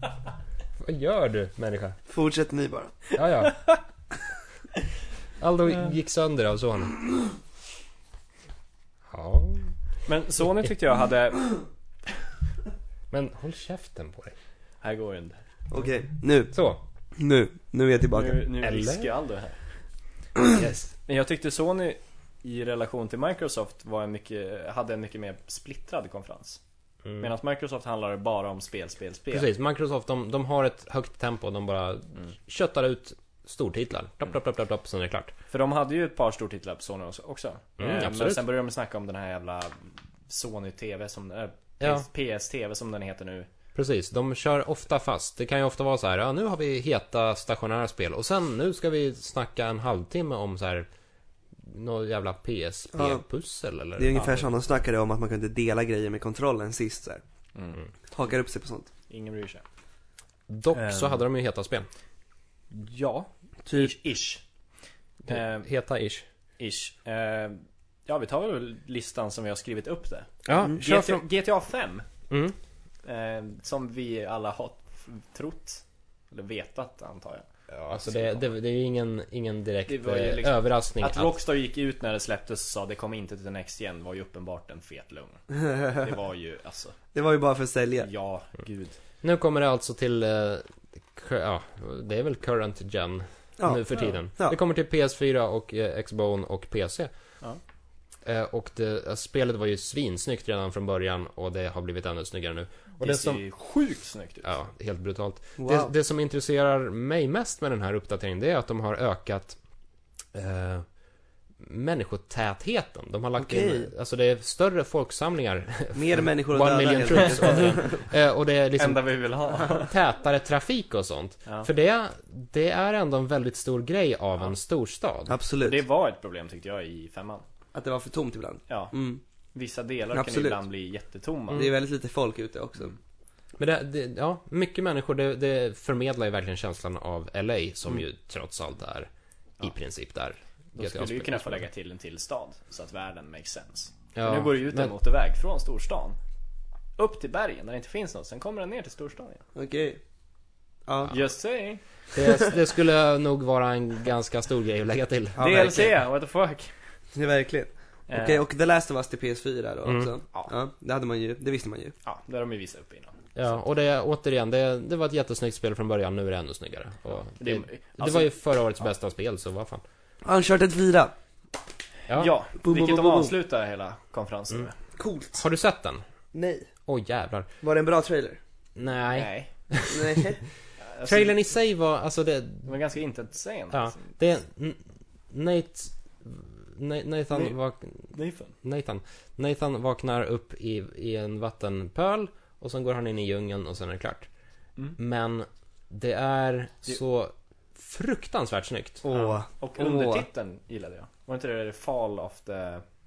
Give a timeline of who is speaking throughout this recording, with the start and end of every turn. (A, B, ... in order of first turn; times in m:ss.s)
0:00.8-0:02.0 A
0:02.1-0:03.1 B
0:03.1-0:03.7 A
0:05.4-0:07.1 A
0:09.1-0:09.8 A
0:10.0-0:11.6 C
0:13.1-0:14.3 A
0:14.8-0:15.4 C
0:15.7-0:16.6 B
0:16.5-0:16.8 A
0:17.2-0:18.4 B
0:18.1-0:19.6 C
0:18.6-0:19.1 A
0:20.5-0:20.9 A
0:20.9-0:26.6 C
0:27.0-0:27.3 A
0:27.2-0:29.5 C
0:29.3-0:35.3 A
0:35.5-0:43.5 C
0:37.8-0:38.5 A
0:41.8-0:42.1 A
0:43.7-0:50.9 A
0:51.7-0:54.5 A
0:52.9-0:53.2 B
0:54.0-0:57.2 B
0:58.1-0:58.9 B
0:59.1-0:59.6 C
1:00.5-1:01.9 A
1:00.7-1:01.2 C
1:02.7-1:04.4 C
1:03.6-1:04.0 B
1:05.2-1:06.2 A
1:05.2-1:05.7 C
1:06.6-1:12.0 C
1:10.4-1:11.2 A
1:12.3-1:12.6 A
1:13.0-1:17.4 C
1:17.7-1:21.3 A
1:18.0-1:18.5 C
1:19.9-1:27.0 C
1:25.7-1:25.9 B
1:27.1-1:28.1 B
1:28.0-1:29.0 C
1:29.2-1:37.1 A
1:33.6-1:34.6 B
1:38.2-1:43.4 A
1:43.0-1:44.5 C
1:44.4-1:49.6 A
1:45.6-1:45.9 B
1:50.3-1:50.8 A
1:51.6-2:05.4 A
1:53.4-1:53.9 B
1:55.9-1:58.0 B
1:58.8-1:59.9 C
2:05.3-2:05.8 B
2:05.6-2:07.4 C
2:07.7-2:09.2 B
2:08.7-2:08.9 C
2:09.5-2:11.6 C
2:10.1-2:10.6 B
2:11.5-2:12.9 B
2:13.6-2:19.1 A
2:19.6-2:21.6 A
2:20.8-2:26.2 C
2:24.1-2:24.9 A
2:27.0-2:29.4 C
2:29.5-2:30.0 B
2:30.8-2:31.1 B
2:31.1-2:31.8 C
2:32.1-2:35.9 A
2:35.4-2:35.8 B
2:35.4-2:36.7 C
2:37.1-2:41.9 B
2:38.1-2:38.4 C
2:39.8-2:40.1 A
2:42.0-2:43.6 C
2:43.3-2:49.8 A
2:47.4-2:48.3 C
2:50.2-2:51.1 B
2:52.1-2:54.7 C
2:52.6-2:53.3 B
2:55.0-2:55.4 B
2:55.3-2:56.0 A
2:56.3-2:56.7 B
2:56.8-2:57.5 A
2:57.6-2:58.4 B
2:58.8-3:00.2 A
2:59.1-2:59.5 C
2:59.9-3:00.4 B
3:00.8-3:01.4 C
3:01.0-3:02.8 A
3:02.6-3:04.0 C
3:03.7-3:14.3 A
3:07.3-3:07.6 C
3:08.1-3:08.5 C
3:15.0-3:19.0 A
3:19.0-3:20.2 B
3:19.1-3:22.8 C